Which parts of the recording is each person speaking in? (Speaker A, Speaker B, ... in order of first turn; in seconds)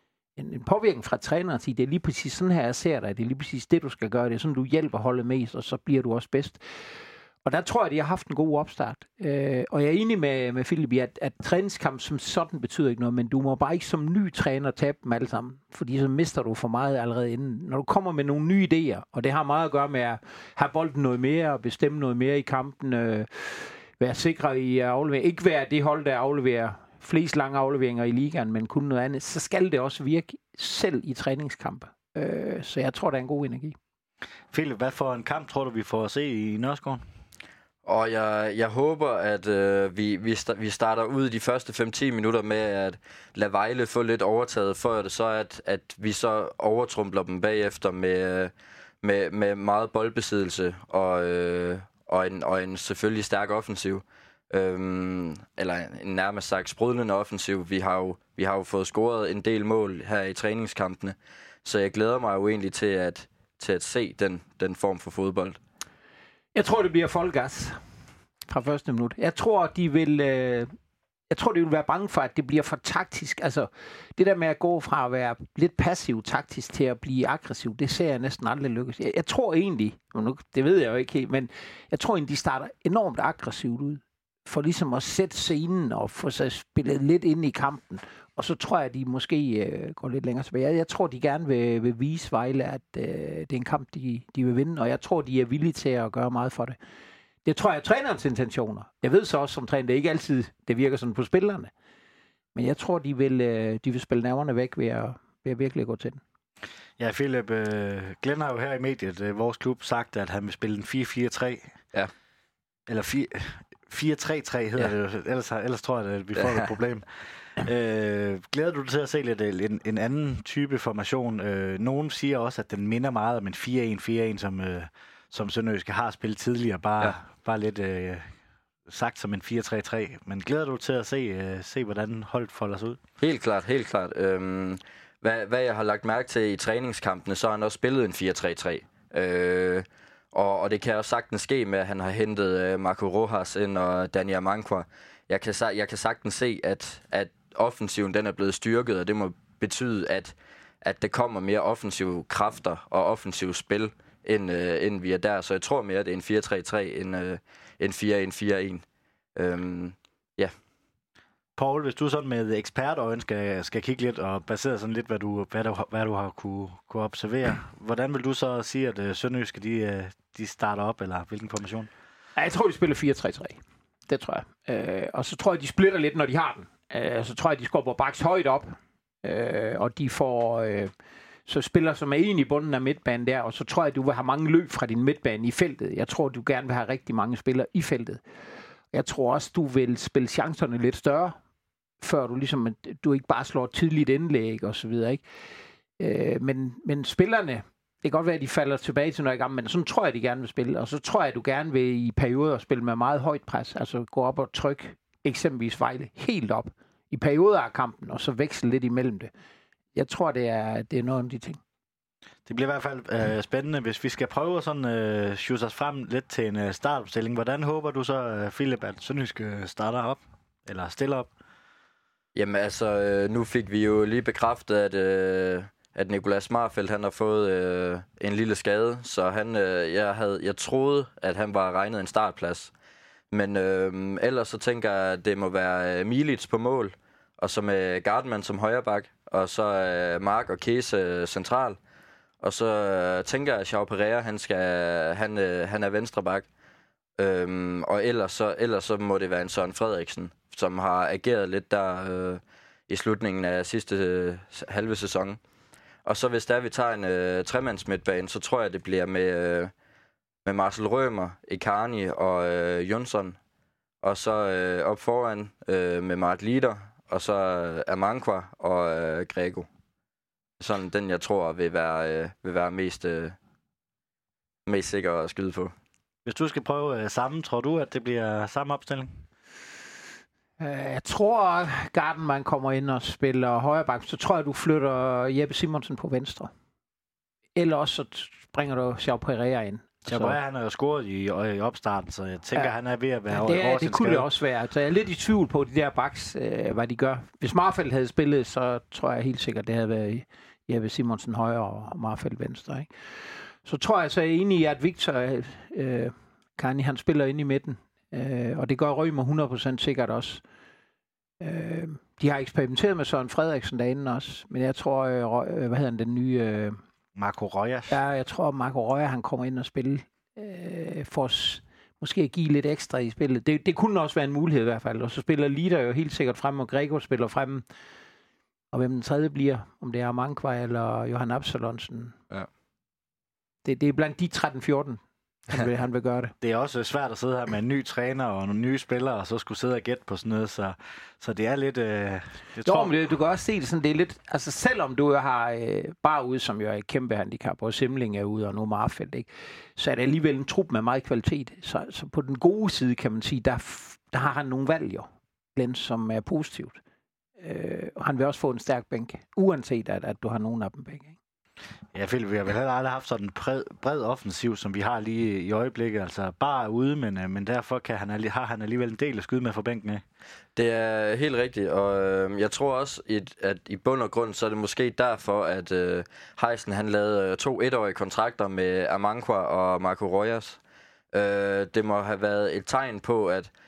Speaker A: 0.4-6.6, 7.5-33.8, 66.5-67.8, 68.5-70.7, 71.3-96.8, 97.5-101.7, 102.5-106.2, 172.4-180.9, 181.5-188.2, 188.9-191.4, 192.0-195.2, 196.0-209.3, 209.9-211.6, 280.6-286.5, 287.6-290.4, 293.3-302.9, 303.6-310.4, 311.4-316.8, 317.9-327.6, 328.7-332.2, 333.6-336.3, 342.6-356.8, 357.4-361.2
Speaker B: 34.5-37.0, 107.0-111.8, 112.9-128.3, 128.9-133.0, 161.6-171.9, 212.5-221.3, 276.2-279.1, 290.1-294.3, 317.2-318.0, 336.4-342.9, 361.9-370.0
Speaker C: 37.9-65.6, 133.2-158.8, 159.4-160.5, 222.3-232.7, 233.3-241.8, 242.4-246.5, 247.2-255.4, 256.1-259.7, 260.4-263.4, 264.0-269.7, 270.6-273.4, 274.7-275.7, 370.6-380.6, 381.1-383.5